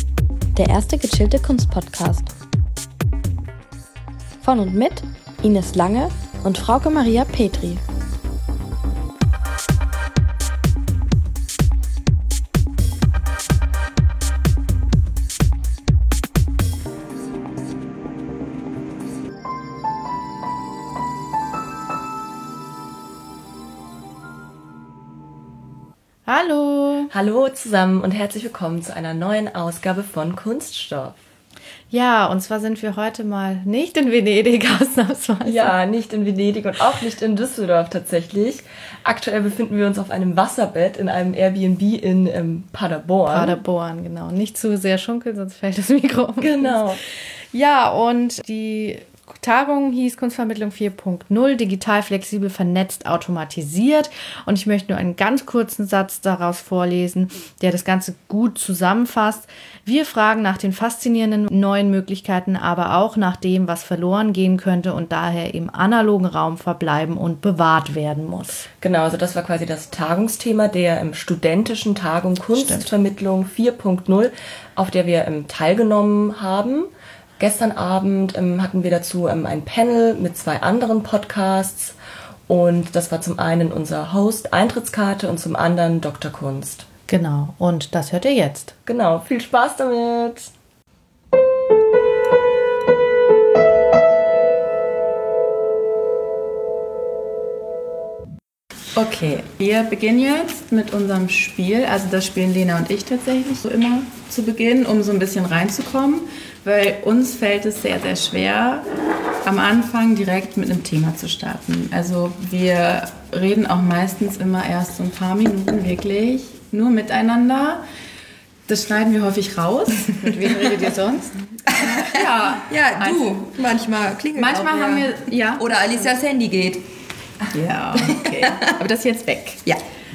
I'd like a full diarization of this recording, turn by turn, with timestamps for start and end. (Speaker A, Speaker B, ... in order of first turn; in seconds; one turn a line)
Speaker A: 0.6-2.3
Speaker A: 4.4-7.8
Speaker B: 26.3-27.1
Speaker C: 27.1-31.2
Speaker B: 31.9-35.7
Speaker C: 35.5-43.6
Speaker B: 43.3-46.9
Speaker C: 46.4-47.0
Speaker B: 47.5-68.6
Speaker C: 68.8-82.0
Speaker C: 82.5-86.9
Speaker B: 87.1-88.7
Speaker C: 88.9-90.5
Speaker D: 99.0-108.9
Speaker D: 109.4-117.8
Speaker D: 118.7-120.3
Speaker B: 120.1-121.4
Speaker E: 121.8-126.8
Speaker D: 121.8-123.4
Speaker D: 124.4-125.7
Speaker D: 127.5-129.6
Speaker E: 128.0-128.6